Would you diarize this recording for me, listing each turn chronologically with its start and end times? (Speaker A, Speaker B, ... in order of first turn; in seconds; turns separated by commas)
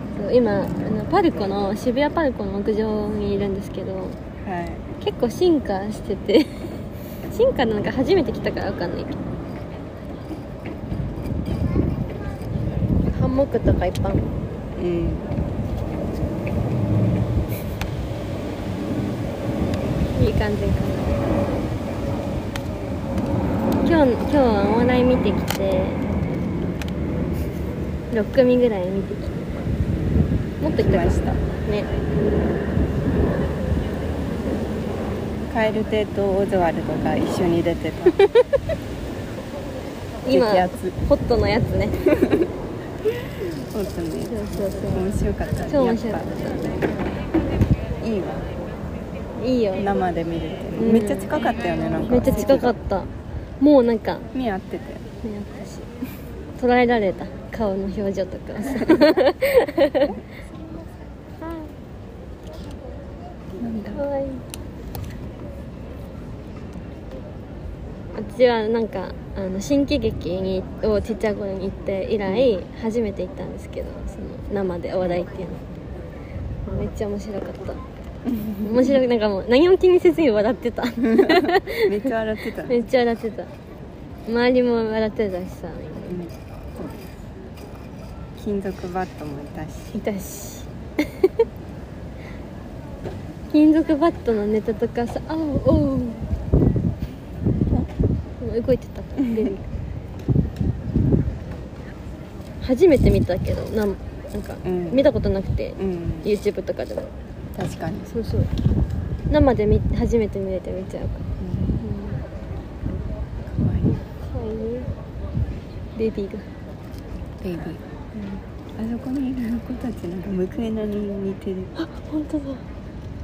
Speaker A: 0.1-4.2, Speaker B: 4.4-4.9, Speaker A: 5.0-6.5, Speaker A: 7.2-9.2, Speaker A: 13.1-14.3, Speaker B: 14.8-15.3, Speaker A: 20.1-21.2, Speaker A: 23.8-26.1, Speaker A: 28.1-29.4, Speaker A: 30.6-31.9, Speaker B: 30.8-31.4, Speaker B: 35.5-38.1, Speaker A: 40.2-42.0, Speaker B: 40.3-41.0, Speaker B: 42.1-42.5, Speaker B: 43.2-46.5, Speaker A: 44.3-45.0, Speaker A: 45.7-46.9, Speaker B: 48.0-48.5, Speaker A: 49.4-49.9, Speaker B: 49.8-52.8, Speaker A: 50.8-51.3, Speaker A: 52.0-54.3, Speaker B: 54.3-55.0, Speaker A: 55.2-55.9, Speaker A: 56.6-60.2, Speaker B: 58.6-59.1, Speaker A: 61.4-61.7, Speaker B: 63.6-64.0, Speaker A: 63.9-64.4, Speaker A: 68.1-75.6, Speaker B: 72.2-72.5, Speaker A: 76.7-77.8, Speaker B: 78.2-79.0, Speaker A: 78.6-82.1, Speaker B: 81.0-82.8, Speaker A: 82.7-83.5, Speaker A: 84.3-86.2, Speaker B: 86.1-87.0, Speaker B: 88.4-90.0, Speaker A: 89.9-91.4, Speaker A: 93.5-96.3, Speaker A: 98.4-99.7, Speaker B: 99.2-99.5, Speaker A: 102.6-107.1, Speaker B: 104.6-105.1, Speaker B: 105.8-106.3, Speaker B: 107.5-108.2, Speaker A: 108.1-108.5, Speaker A: 109.3-111.2, Speaker B: 111.4-111.9, Speaker A: 111.8-112.2, Speaker B: 113.4-114.0, Speaker A: 114.3-114.9, Speaker A: 116.0-116.5, Speaker B: 117.4-121.7, Speaker A: 121.8-122.6